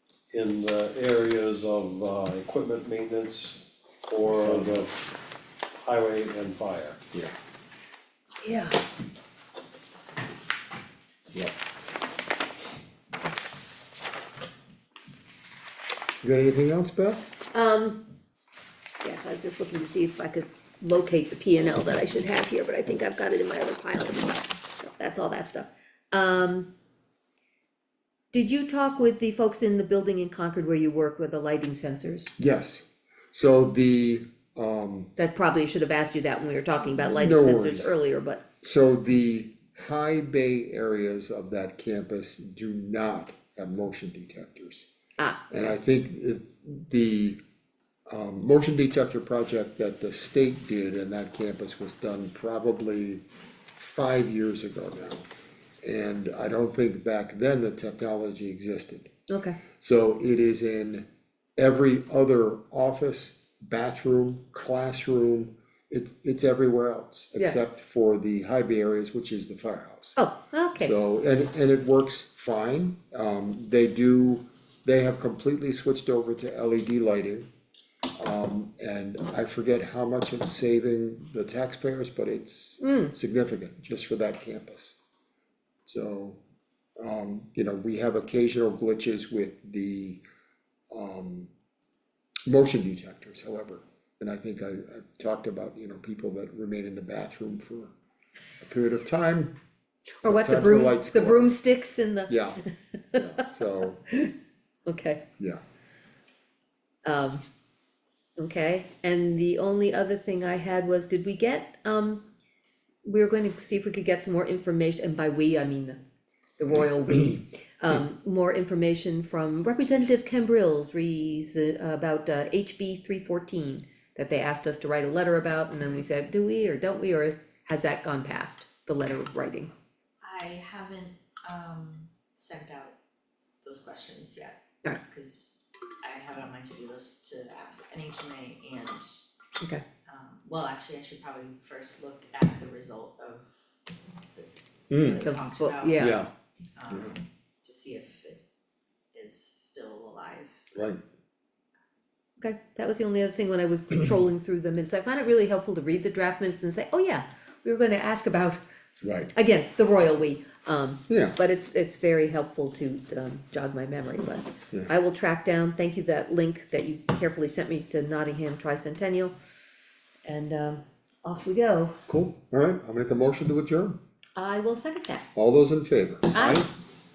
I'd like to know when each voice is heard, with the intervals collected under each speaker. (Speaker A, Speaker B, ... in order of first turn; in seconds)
Speaker A: 0.3-5.1, 5.8-7.0
Speaker B: 4.3-4.9, 16.2-17.3, 32.4-35.1, 36.9-38.0, 38.6-44.9, 45.5-47.4, 48.1-53.2, 53.8-55.3, 55.8-59.1, 59.8-70.2, 70.8-77.5, 78.2-85.0, 85.8-86.4, 87.0-90.2, 90.9-91.5, 92.5-98.0, 98.6-99.5, 100.2-101.5, 102.3-102.6, 103.2-104.0, 144.9-145.2, 146.0-146.3, 146.9-147.2, 150.7-151.0, 159.0-159.3, 161.1-161.4, 172.1-174.0, 175.3-176.7
Speaker C: 8.4-8.8, 17.5-18.1, 19.0-26.7, 28.3-32.3, 35.2-38.4, 59.3-59.6, 70.2-70.9, 82.8-83.1, 100.2-103.2, 104.9-105.2, 107.0-107.4, 108.4-112.2, 113.0-116.0, 116.6-129.7, 145.2-146.2, 152.4-158.6, 159.3-169.3, 170.2-171.9, 174.4-175.3, 176.3-176.7
Speaker D: 130.2-133.0, 133.6-139.2, 140.1-143.5, 144.3-146.2, 146.8-148.4, 149.1-150.6